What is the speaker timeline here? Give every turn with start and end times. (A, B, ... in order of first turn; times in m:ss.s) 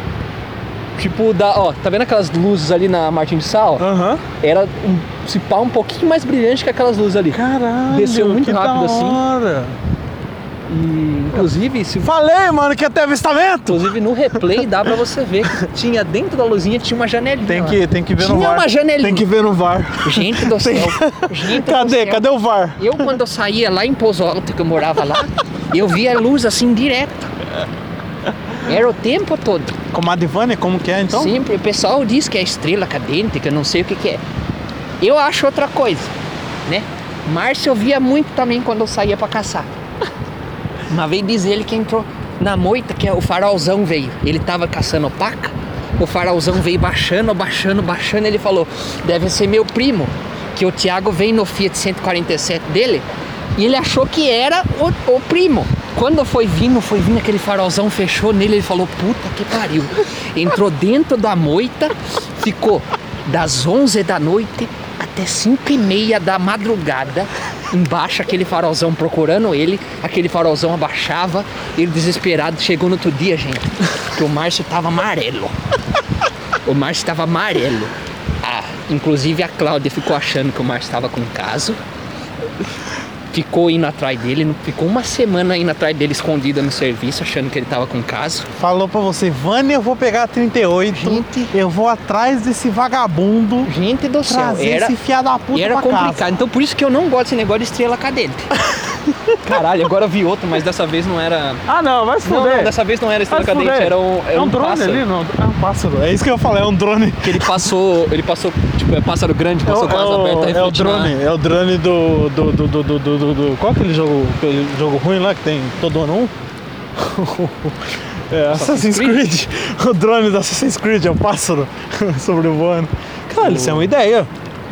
0:01.0-0:03.9 A
0:03.8-0:04.2 B
0:04.4-0:09.2 A
0:07.3-0:09.8 B
0:10.7-0:12.1 A
0:12.0-0:14.0 B
0:13.7-0:19.2 A
0:17.4-0:23.2 B
0:20.0-0:22.2 A
0:22.8-0:27.3 A
0:28.6-0:29.8 A
0:29.9-0:31.3 B
0:31.1-0:34.2 A
0:35.0-0:36.1 A
0:36.6-0:39.7 A
0:40.9-0:53.0 A
0:53.6-1:15.6 A
1:16.6-1:21.8 A
1:23.3-1:28.5 A
1:28.6-1:33.7 B
1:30.9-1:31.5 A
1:33.6-1:35.0 A
1:34.2-1:36.3 B
1:35.5-1:38.5 A
1:38.7-1:39.3 B
1:39.4-1:41.6 A
1:41.6-1:42.8 B
1:42.2-1:45.0 A
1:43.3-1:47.7 B
1:47.2-1:51.1 A
1:49.6-1:56.3 B
1:57.0-2:04.3 B
1:58.5-1:59.2 A
2:03.4-2:03.9 A